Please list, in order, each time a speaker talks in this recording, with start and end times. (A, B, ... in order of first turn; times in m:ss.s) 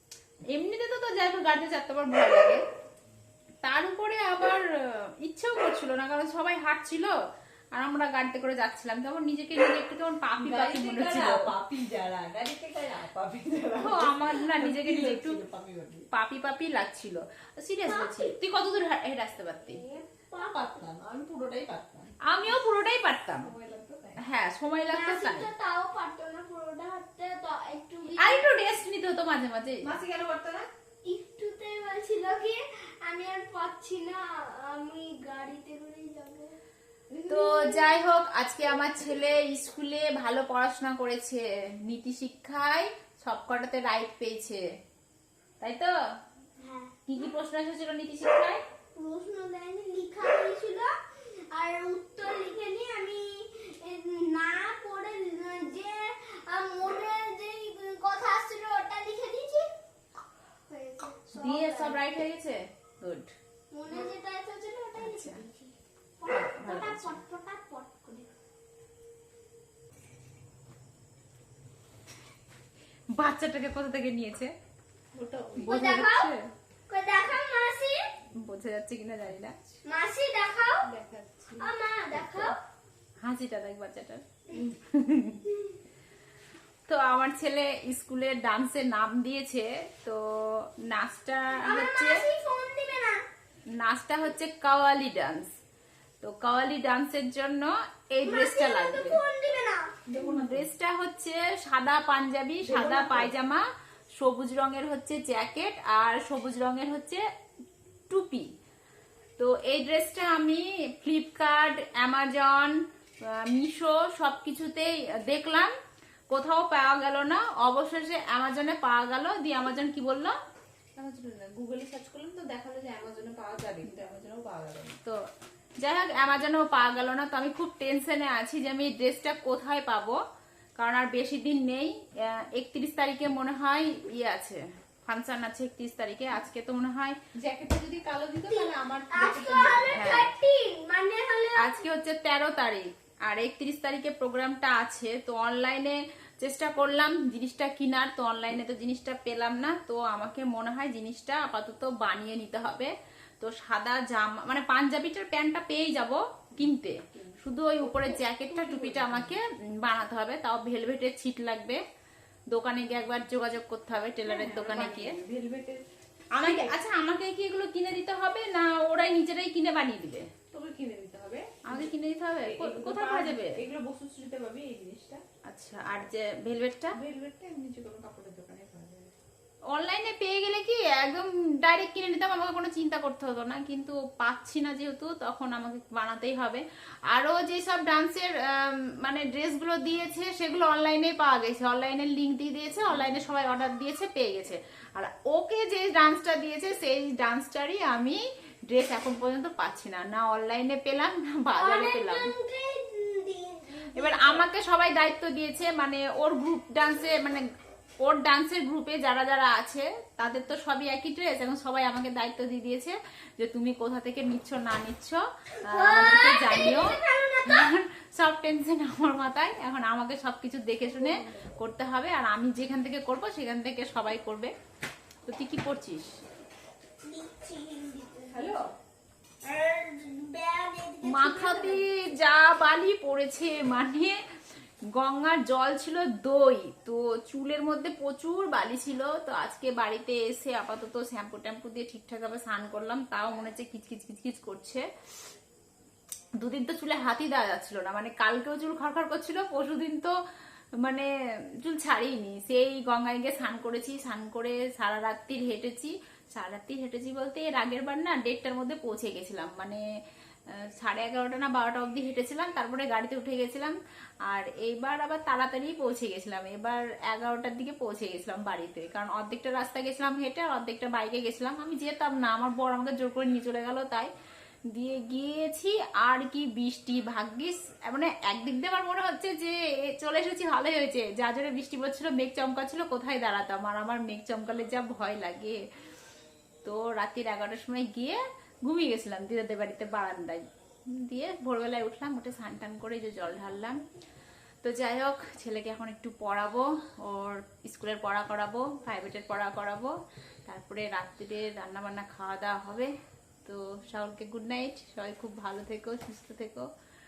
0:00.5-0:02.6 A
0:03.6-0:04.6 A
0:05.2-0:07.2 A
0:07.7-0:11.5 A
0:10.4-0:16.1 B
0:13.8-0:15.4 A
0:16.1-0:19.8 A
0:17.8-0:18.4 C
0:19.7-0:20.8 C
0:20.3-0:22.2 B
0:22.2-0:23.5 A
0:23.4-0:24.2 B
0:24.2-0:25.5 A
0:24.9-0:28.5 C
0:28.2-0:29.9 A
0:29.8-0:30.7 B
0:31.0-0:36.6 C
0:37.1-0:37.5 B
0:37.3-0:44.6 A
0:37.3-0:37.7 C
0:45.6-0:45.9 A
0:46.6-0:47.2 C
0:47.1-0:48.6 A
0:49.0-0:50.9 C
0:51.5-0:59.7 C
1:00.7-1:02.0 C
1:01.3-1:03.3 A
1:03.7-1:08.3 C
1:05.0-1:05.4 A
1:06.4-1:07.2 A
1:13.1-1:14.5 A
1:15.1-1:15.7 B
1:15.6-1:16.4 A
1:15.6-1:16.3 C
1:16.9-1:18.0 C
1:18.4-1:19.6 A
1:19.9-1:20.9 C
1:20.9-1:21.7 B
1:21.6-1:22.5 C
1:23.2-1:25.4 A
1:26.9-1:30.2 A
1:30.8-1:32.2 A
1:31.6-1:33.2 C
1:33.8-1:35.5 A
1:36.2-1:39.2 A
1:38.2-1:39.8 C
1:40.1-1:40.7 B
1:40.2-1:43.6 A
1:42.6-1:43.3 B
1:44.2-1:47.2 A
1:48.1-1:48.5 A
1:49.4-1:52.8 A
1:53.3-1:55.7 A
1:56.3-2:00.4 A
2:01.0-2:05.0 B
2:05.8-2:10.2 A
2:10.8-2:17.2 A
2:17.4-2:20.3 B
2:18.5-2:21.8 C
2:19.9-2:20.3 A
2:21.6-2:41.8 A
2:36.6-2:39.4 B
2:42.5-2:45.1 A
2:44.2-2:46.8 B
2:46.4-2:50.3 A
2:50.5-2:51.9 B
2:51.7-2:53.6 A
2:52.4-2:55.2 B
2:55.5-2:57.0 A
2:57.0-2:59.1 B
2:59.7-3:22.3 A
3:21.5-3:24.4 C
3:23.9-3:27.4 A
3:28.0-3:44.5 A
3:35.7-3:37.7 C
3:40.8-3:41.6 B
3:45.3-3:46.1 A
3:47.0-3:48.6 C
3:48.3-3:48.7 B
3:49.4-3:51.8 C
3:51.1-3:54.2 A
3:55.0-4:04.8 A
4:06.4-4:10.1 A
4:10.8-4:11.1 A
4:11.6-4:19.8 A
4:20.8-4:23.8 A
4:24.3-4:34.1 A
4:34.7-4:45.6 A
4:46.6-4:53.8 A
4:54.6-4:59.9 A
5:00.5-5:02.9 A
5:03.4-5:06.7 A